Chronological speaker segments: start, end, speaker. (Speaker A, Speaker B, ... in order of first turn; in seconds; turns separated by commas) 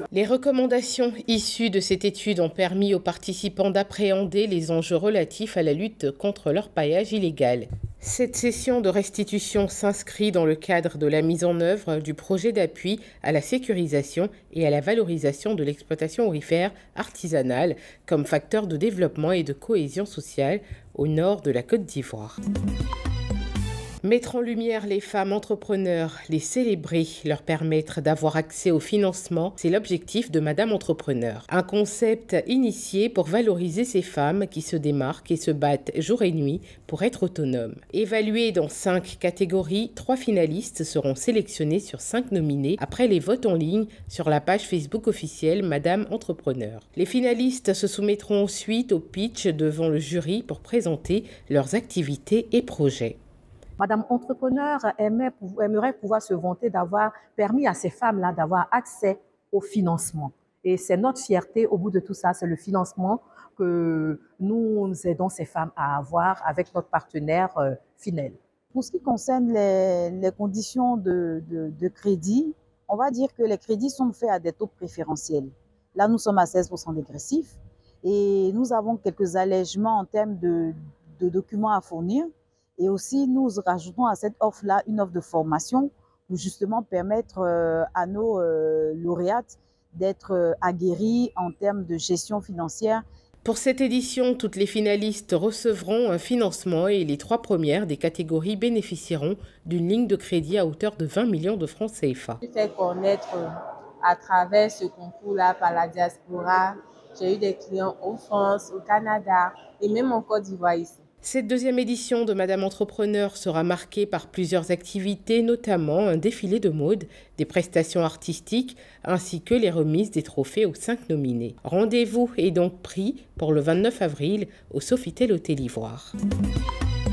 Speaker A: 0.1-22.4, Speaker A: 24.0-53.2, Speaker B: 53.8-68.4, Speaker C: 68.7-93.0, Speaker A: 93.4-102.4, Speaker D: 102.4-103.5, Speaker D: 104.0-111.0, Speaker A: 111.2-126.2